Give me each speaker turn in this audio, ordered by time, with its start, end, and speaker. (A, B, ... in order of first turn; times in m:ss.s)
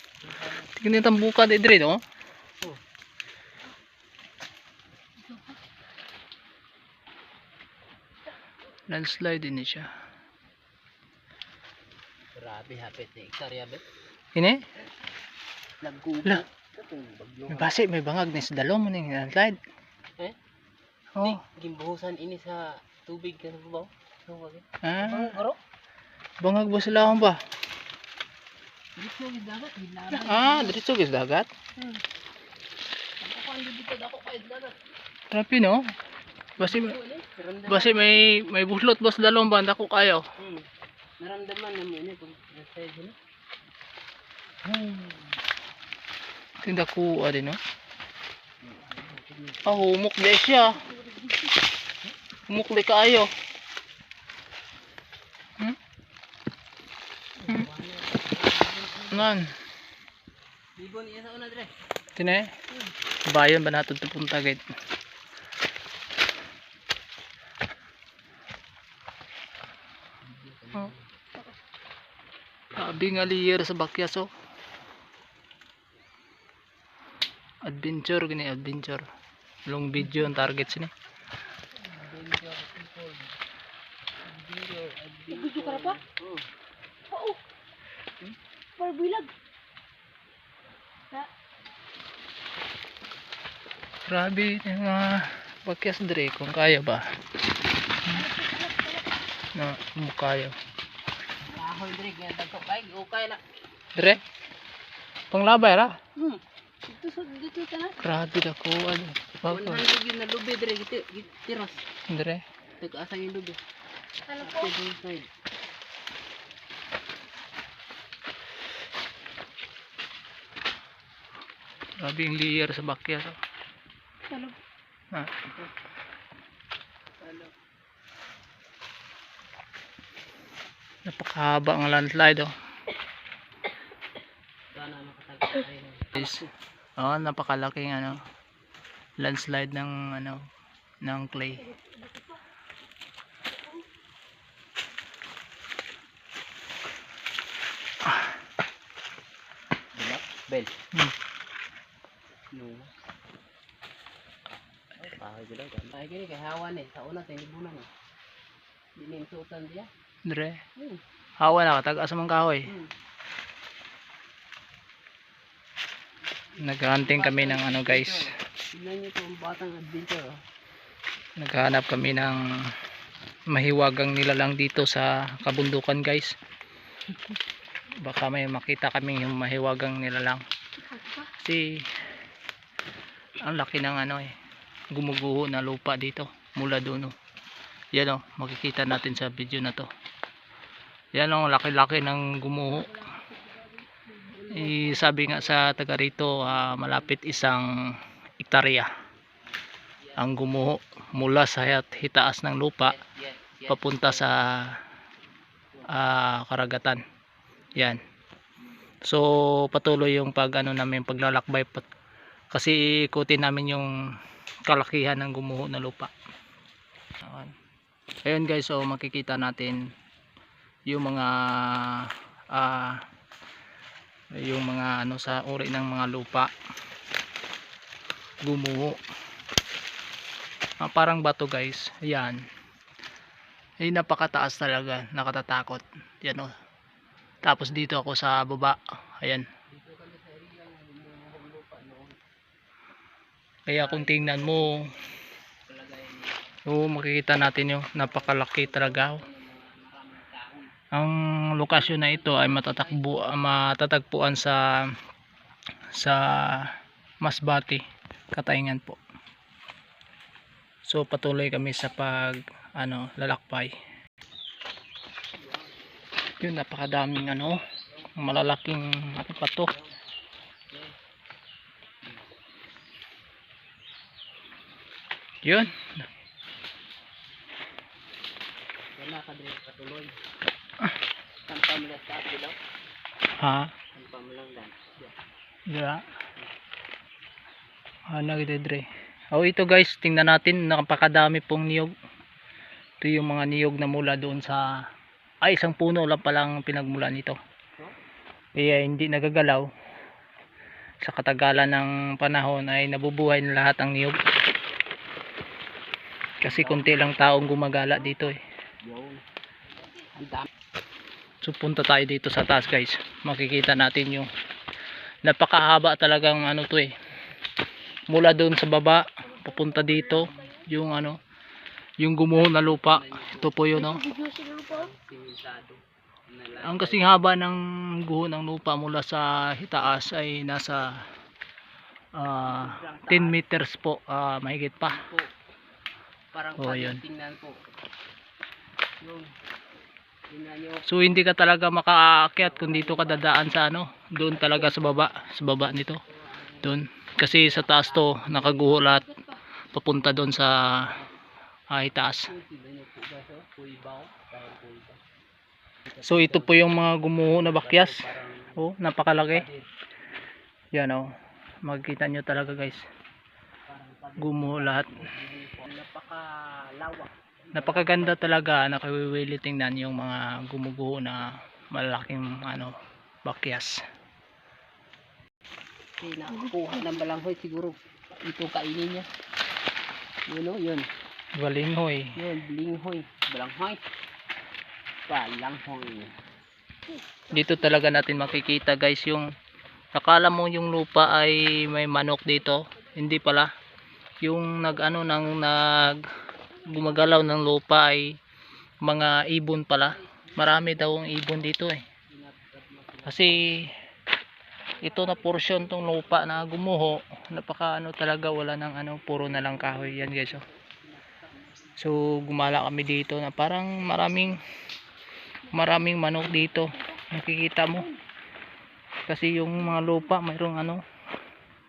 0:00.2-0:00.7 A
0:00.8-0:02.0 B
0:08.9-0:09.9 B
0:12.3-0:13.8 A
0:14.3-0:14.6 B
0:15.8-0:17.7 A
0:17.5-0:19.6 B
0:21.2-0:21.4 B
0:21.2-0:25.6 A
0:24.8-0:25.3 B
0:26.4-0:27.4 B
0:29.0-0:30.8 A
0:30.1-0:31.5 B
0:31.8-0:32.0 A
0:33.2-0:34.8 A
0:35.3-0:35.8 B
0:36.6-0:37.0 B
0:36.6-0:38.3 A
0:37.7-0:40.2 B
0:40.4-0:40.6 A
0:41.2-0:43.2 A
0:44.6-0:45.4 A
0:46.6-0:47.6 B
0:48.6-0:49.8 A
0:49.6-0:50.9 B
0:50.9-0:51.3 C
0:52.5-0:53.3 B
0:57.4-0:59.3 A
0:59.1-0:59.5 B
1:00.8-1:01.7 A
1:02.2-1:02.5 B
1:03.3-1:04.6 B
1:10.2-1:11.1 A
1:12.7-1:14.3 B
1:17.6-1:19.0 B
1:19.7-1:20.9 B
1:21.8-1:23.4 A
1:24.2-1:26.4 A
1:25.3-1:26.0 C
1:27.1-1:27.4 C
1:28.8-1:29.3 C
1:34.1-1:37.0 B
1:38.1-1:39.1 C
1:39.5-1:40.5 B
1:41.4-1:43.4 A
1:44.0-1:44.2 B
1:45.3-1:46.0 B
1:46.2-1:48.0 A
1:48.0-1:49.8 B
1:49.5-1:51.8 A
1:52.1-1:52.4 B
1:52.8-1:53.6 A
1:54.3-1:54.7 C
1:54.4-1:55.3 A
2:02.0-2:03.4 B
2:04.3-2:04.6 C
2:07.2-2:07.5 A
2:11.0-2:12.5 B
2:14.7-2:16.5 A
2:16.1-2:16.4 B
2:17.0-2:18.2 B
2:19.2-2:20.4 B
2:21.0-2:21.7 B
2:21.8-2:22.2 C
2:30.0-2:30.7 A
2:32.5-2:32.9 A
2:35.0-2:37.9 A
2:39.0-2:39.9 A
2:40.2-2:40.6 B
2:41.4-2:42.7 B
2:42.7-2:42.9 A
2:46.6-2:48.3 B
2:46.9-2:50.4 A
2:51.4-2:52.4 B
2:53.5-2:56.3 B
2:58.0-3:00.4 B
3:00.9-3:01.3 C
3:01.4-3:01.8 B
3:03.4-3:04.3 B
3:04.9-3:07.1 B
3:07.9-3:09.9 B
3:11.1-3:13.1 B
3:12.9-3:14.0 C
3:14.1-3:17.3 A
3:14.5-3:17.7 B
3:18.4-3:18.9 B
3:20.0-3:20.4 A
3:20.2-3:23.0 B
3:22.8-3:24.3 A
3:23.7-3:24.8 B
3:25.9-3:27.0 B
3:27.7-3:28.0 B
3:29.0-3:31.8 B
3:32.5-3:33.9 B
3:34.6-3:36.1 B
3:37.2-3:37.5 B
3:38.2-3:39.8 B
3:40.9-3:43.0 B
3:44.3-3:46.5 B
3:48.4-3:49.0 B
3:50.8-3:52.4 B
3:53.8-3:56.5 B
3:57.4-3:59.4 B
3:59.7-4:02.2 A
4:03.7-4:04.8 B
4:03.8-4:04.9 A
4:05.7-4:06.3 A
4:06.7-4:09.2 B
4:08.0-4:10.7 A
4:10.9-4:14.7 B
4:11.7-4:13.0 A
4:16.0-4:16.7 B
4:17.2-4:19.0 B
4:20.9-4:23.7 B
4:25.4-4:25.7 A
4:26.4-4:27.6 B
4:28.2-4:29.7 B
4:35.4-4:35.9 B
4:39.0-4:40.1 A
4:41.5-4:42.6 A
4:43.4-4:43.7 B
4:43.9-4:45.2 A
4:45.7-4:46.0 B
4:48.1-4:51.9 B
4:53.0-4:54.7 B
4:55.4-4:57.4 B
4:58.6-4:59.7 B
5:01.0-5:04.2 B
5:06.4-5:08.4 B
5:06.4-5:07.2 A
5:08.8-5:09.2 A
5:10.0-5:10.5 A
5:11.4-5:14.3 B
5:15.2-5:16.9 B
5:18.1-5:21.2 B
5:19.3-5:20.4 C
5:22.0-5:24.1 B
5:22.4-5:23.9 A
5:23.7-5:24.9 C
5:24.6-5:27.3 A
5:26.6-5:31.0 B
5:32.2-5:35.0 B
5:32.4-5:33.4 A
5:34.8-5:35.3 A
5:36.3-5:37.6 A
5:36.6-5:37.0 B
5:39.0-5:39.3 A
5:40.3-5:41.0 A
5:40.8-5:46.0 B
5:42.4-5:43.5 A
5:44.3-5:45.0 A
5:46.1-5:48.8 A
5:46.6-5:49.1 B
5:49.7-5:50.6 B
5:51.7-5:52.3 B
5:52.2-5:55.0 A
5:55.9-5:56.6 A
5:56.0-5:58.0 B
5:57.4-5:58.6 A
5:58.6-5:59.4 B
5:59.2-5:59.7 A
6:00.7-6:01.1 B
6:01.6-6:02.8 B
6:03.7-6:08.4 A
6:04.2-6:04.9 B
6:07.5-6:12.7 B
6:13.2-6:13.8 B
6:16.0-6:19.1 A
6:20.3-6:20.9 A
6:21.4-6:22.1 B
6:22.1-6:23.8 A
6:25.1-6:26.1 A
6:27.3-6:27.8 C
6:27.3-6:29.3 B
6:29.9-6:33.5 B
6:34.2-6:36.0 B
6:36.7-6:38.2 B
6:38.8-6:41.8 B
6:39.8-6:41.5 A
6:42.1-6:43.4 A
6:43.0-6:43.7 B
6:44.8-6:46.5 A
6:44.8-6:50.4 B
6:49.1-6:51.9 A
6:51.8-6:54.4 B
6:55.5-6:57.9 B
6:59.1-7:00.8 B